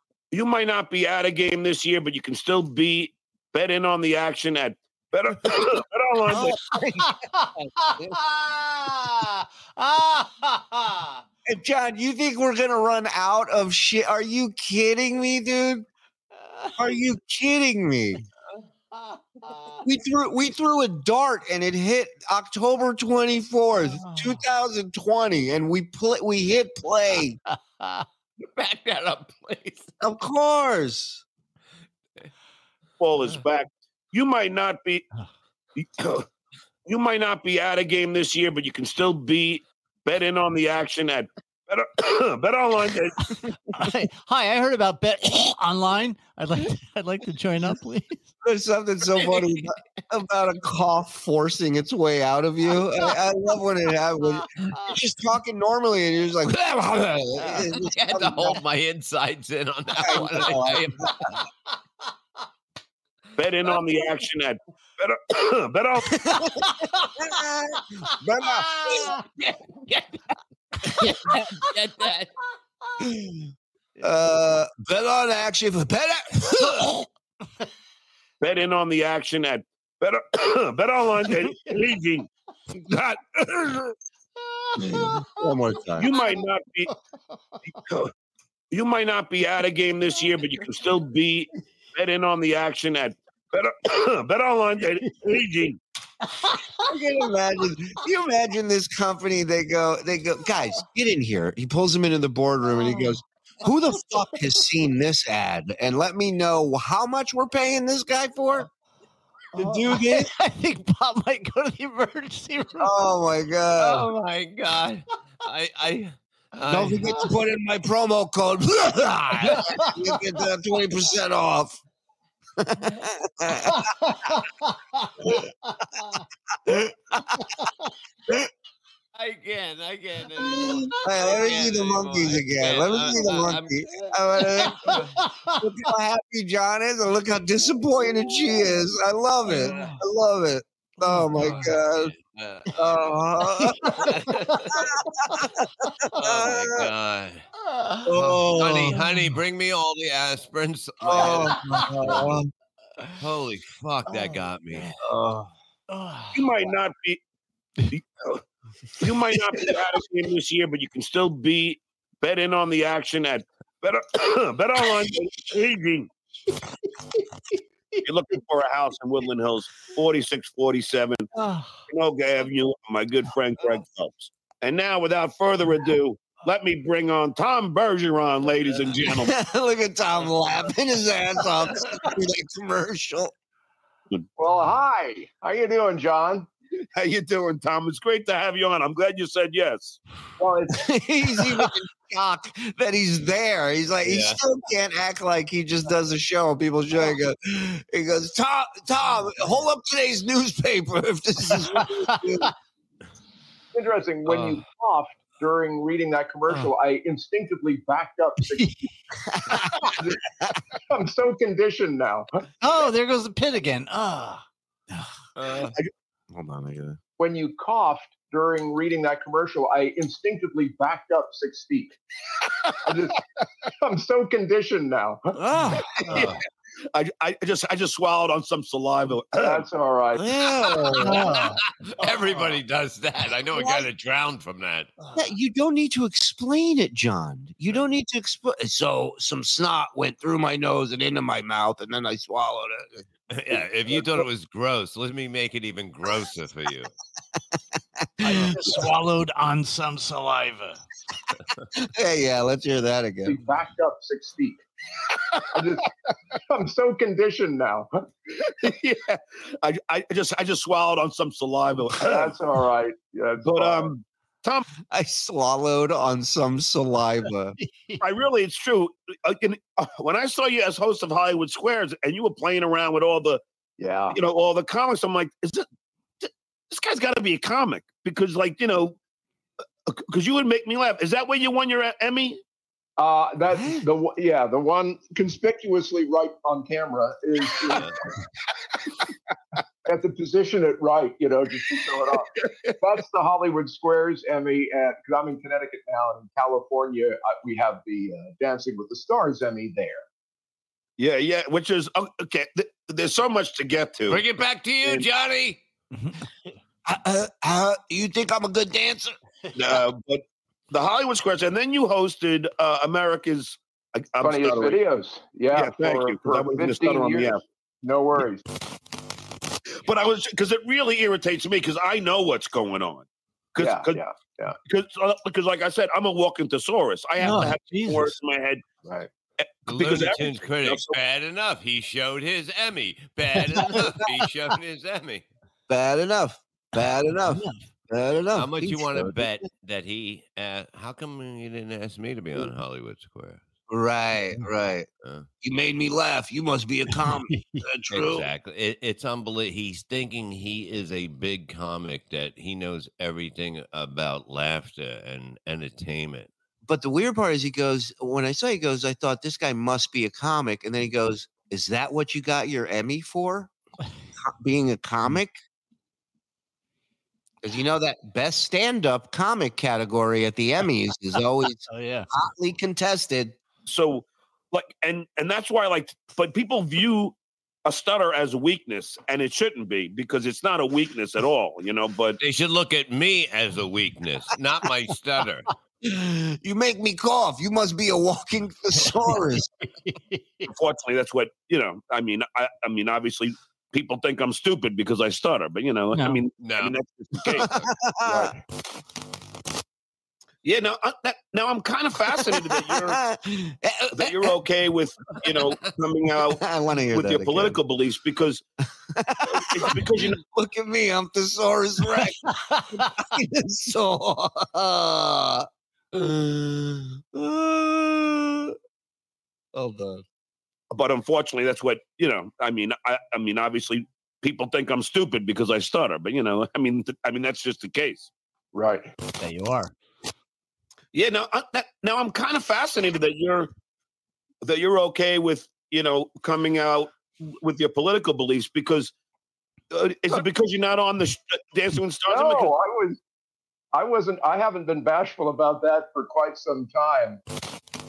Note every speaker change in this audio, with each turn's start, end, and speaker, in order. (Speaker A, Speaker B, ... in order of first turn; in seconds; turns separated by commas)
Speaker A: 0.3-6.7, Speaker B: 6.3-7.1, Speaker C: 7.0-11.2, Speaker B: 11.5-15.9, Speaker C: 16.4-16.8, Speaker B: 16.8-18.2, Speaker C: 18.9-19.8, Speaker B: 19.8-27.4, Speaker C: 23.8-24.4, Speaker C: 27.5-28.1, Speaker D: 28.6-29.9, Speaker B: 30.0-31.2, Speaker A: 33.0-35.1, Speaker A: 35.8-36.3, Speaker A: 36.9-43.3, Speaker C: 43.7-48.3, Speaker B: 48.4-58.6, Speaker D: 57.5-61.4, Speaker B: 60.0-61.3, Speaker A: 63.4-66.3, Speaker B: 66.1-69.2, Speaker C: 66.7-67.1, Speaker C: 68.7-69.2, Speaker D: 69.4-70.1, Speaker D: 71.0-72.3, Speaker B: 73.0-73.4, Speaker B: 74.0-77.0, Speaker A: 78.4-84.0, Speaker C: 84.4-85.5, Speaker B: 84.8-86.1, Speaker A: 86.0-86.9, Speaker C: 86.1-87.8, Speaker A: 87.9-88.1, Speaker A: 88.7-95.8, Speaker C: 96.4-96.9, Speaker B: 96.8-108.7, Speaker C: 102.8-103.2, Speaker B: 109.5-110.3, Speaker C: 109.5-112.9, Speaker B: 112.8-114.1, Speaker D: 113.8-117.2, Speaker B: 116.7-121.8, Speaker C: 119.5-119.9, Speaker B: 122.6-123.9, Speaker C: 125.7-126.2, Speaker B: 126.7-127.4, Speaker D: 129.2-135.0, Speaker B: 130.4-142.1, Speaker C: 134.8-135.6, Speaker C: 139.5-140.0, Speaker C: 141.0-141.7, Speaker D: 141.3-143.2, Speaker B: 142.8-144.0, Speaker C: 143.6-144.6, Speaker D: 144.0-144.8, Speaker B: 144.7-146.9, Speaker D: 146.2-147.4, Speaker C: 147.7-148.0, Speaker B: 148.1-149.0, Speaker D: 148.1-152.3, Speaker C: 149.0-149.3, Speaker B: 151.0-152.5, Speaker D: 153.2-154.9, Speaker B: 154.7-155.5, Speaker C: 155.9-156.5, Speaker A: 156.3-157.2, Speaker A: 157.9-158.4, Speaker A: 159.0-166.1, Speaker A: 168.1-171.3, Speaker C: 171.4-171.8, Speaker A: 171.9-179.3, Speaker B: 179.1-183.3, Speaker E: 184.4-186.5, Speaker A: 187.0-190.0, Speaker E: 190.4-190.7, Speaker B: 190.7-202.5, Speaker D: 194.0-194.4, Speaker C: 201.5-202.2, Speaker E: 203.7-208.7, Speaker D: 204.3-204.6, Speaker C: 208.5-208.9, Speaker B: 209.3-210.6, Speaker E: 210.9-212.3, Speaker C: 212.6-215.1, Speaker B: 216.3-217.0, Speaker E: 217.2-222.0, Speaker E: 222.8-223.2, Speaker E: 223.8-225.4, Speaker B: 225.4-226.3, Speaker C: 225.6-225.8, Speaker A: 226.9-229.7, Speaker E: 229.4-230.3, Speaker B: 230.2-231.5, Speaker D: 231.0-234.9, Speaker C: 231.2-231.6, Speaker B: 233.5-233.9, Speaker B: 235.2-244.2, Speaker D: 243.3-246.9, Speaker B: 248.0-248.6, Speaker C: 248.2-250.8, Speaker B: 251.7-253.4, Speaker E: 253.2-254.6, Speaker E: 255.5-255.9, Speaker E: 256.5-258.5, Speaker A: 258.6-262.4, Speaker E: 262.0-263.9, Speaker A: 263.4-264.7, Speaker B: 264.9-267.6, Speaker C: 267.6-268.0, Speaker A: 268.0-273.4, Speaker E: 273.8-274.2, Speaker A: 274.1-275.6, Speaker A: 276.2-279.0, Speaker A: 279.9-282.4, Speaker E: 283.0-287.9, Speaker B: 283.5-283.8, Speaker E: 289.9-300.0, Speaker A: 301.0-304.2, Speaker D: 304.1-305.6, Speaker C: 305.9-306.2, Speaker B: 306.9-309.2, Speaker A: 309.5-314.8, Speaker E: 314.2-318.4, Speaker A: 315.5-317.4, Speaker A: 319.8-324.0, Speaker E: 323.6-324.6, Speaker A: 324.7-328.6, Speaker C: 327.2-328.1, Speaker E: 328.8-329.1, Speaker A: 329.4-330.9, Speaker D: 329.7-335.3, Speaker B: 335.7-339.4, Speaker C: 337.3-337.6, Speaker D: 338.4-343.4, Speaker B: 343.7-344.9, Speaker B: 345.4-348.3, Speaker C: 347.3-347.6, Speaker D: 347.9-356.3, Speaker B: 356.6-363.5, Speaker B: 364.2-365.3, Speaker B: 367.4-373.4, Speaker C: 371.7-372.1, Speaker A: 373.7-382.2, Speaker D: 382.2-385.5, Speaker B: 385.8-389.5, Speaker C: 388.8-390.5, Speaker A: 390.5-397.5, Speaker C: 395.9-396.2, Speaker D: 396.4-396.8, Speaker D: 397.3-397.7, Speaker B: 397.3-398.3, Speaker E: 398.1-398.3, Speaker A: 400.4-403.0, Speaker B: 402.1-404.3, Speaker A: 403.9-408.4, Speaker B: 406.3-407.6, Speaker B: 408.9-418.6, Speaker A: 409.3-410.2, Speaker C: 412.3-412.9, Speaker B: 419.5-420.0, Speaker A: 420.7-428.1, Speaker E: 428.5-428.9, Speaker C: 429.2-429.7, Speaker A: 430.9-433.5, Speaker A: 434.4-438.9, Speaker A: 439.7-442.5, Speaker E: 442.1-443.0, Speaker E: 443.7-447.2